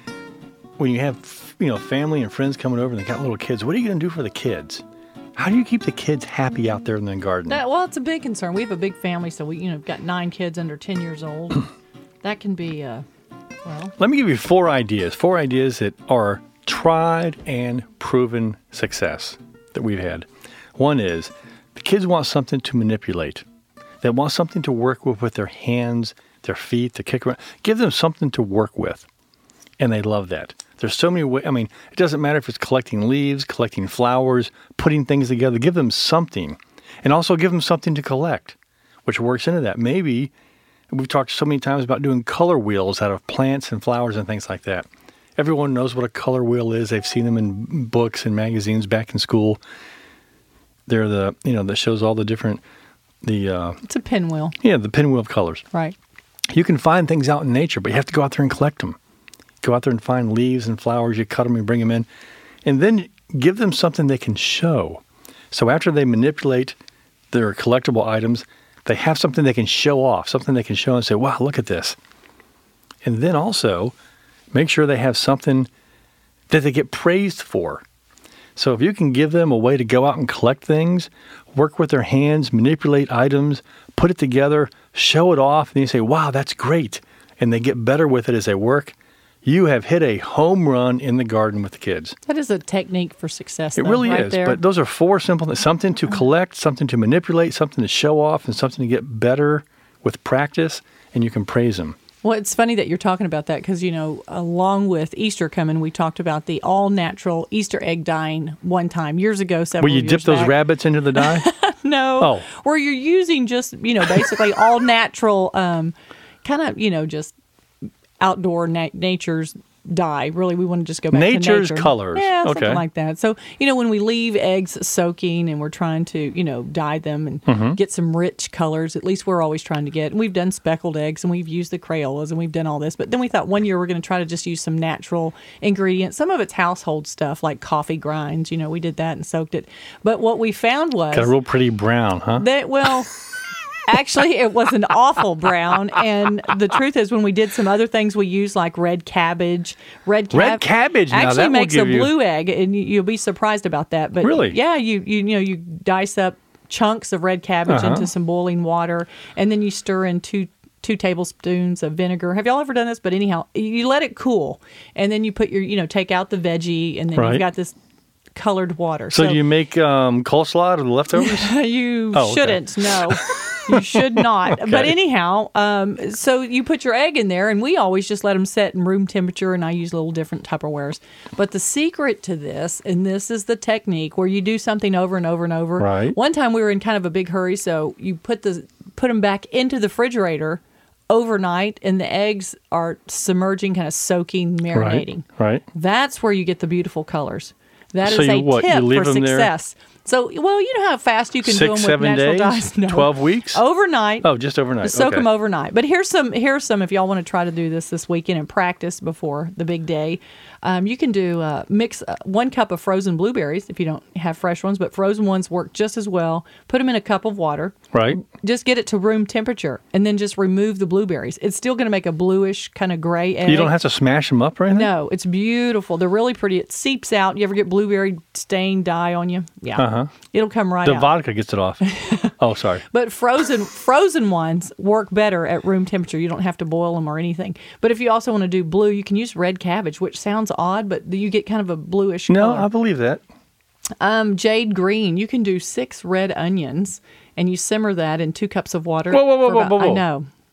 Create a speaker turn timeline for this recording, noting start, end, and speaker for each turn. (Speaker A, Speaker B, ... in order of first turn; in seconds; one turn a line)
Speaker A: 0.8-4.8
Speaker A: 5.3-7.6
Speaker B: 7.5-11.7
Speaker B: 12.2-13.0
Speaker B: 13.6-13.9
Speaker A: 14.0-23.4
Speaker A: 24.0-29.1
Speaker A: 29.8-40.3
Speaker A: 40.9-49.6
Speaker A: 50.9-52.6
Speaker A: 53.2-53.8
Speaker B: 53.9-54.5
Speaker A: 54.6-55.6
Speaker A: 56.5-59.0
Speaker A: 59.6-62.0
Speaker A: 62.6-66.8
Speaker A: 67.3-72.0
Speaker A: 73.0-73.9
Speaker A: 74.5-75.7
Speaker A: 76.5-77.8
Speaker A: 78.5-92.2
Speaker B: 92.3-94.6
Speaker A: 93.8-102.0
Speaker B: 102.2-110.6
Speaker A: 109.8-111.5
Speaker B: 111.1-117.3
Speaker A: 112.2-112.5
Speaker B: 118.2-141.3
Speaker A: 121.1-122.8
Speaker A: 127.5-127.8
Speaker A: 141.1-142.4
Speaker B: 142.3-143.1
Speaker B: 143.8-167.8
Speaker A: 150.3-152.1
Speaker A: 154.2-154.6
Speaker A: 157.7-158.1
Speaker A: 167.1-167.4
Speaker B: 168.3-169.4
Speaker A: 169.1-171.5
Speaker B: 171.1-204.3
Speaker A: 172.1-174.9
Speaker A: 185.8-186.2
Speaker A: 194.7-195.6
Speaker A: 198.0-199.5
Speaker A: 201.4-203.6
Speaker A: 204.2-205.3
Speaker B: 204.8-223.7
Speaker A: 217.9-218.2
Speaker A: 223.4-224.9
Speaker B: 224.7-231.2
Speaker A: 229.8-230.1
Speaker A: 230.8-231.9
Speaker B: 231.9-232.3
Speaker A: 232.4-232.8
Speaker B: 232.9-242.7
Speaker A: 242.3-243.2
Speaker B: 244.0-250.3
Speaker A: 249.1-250.0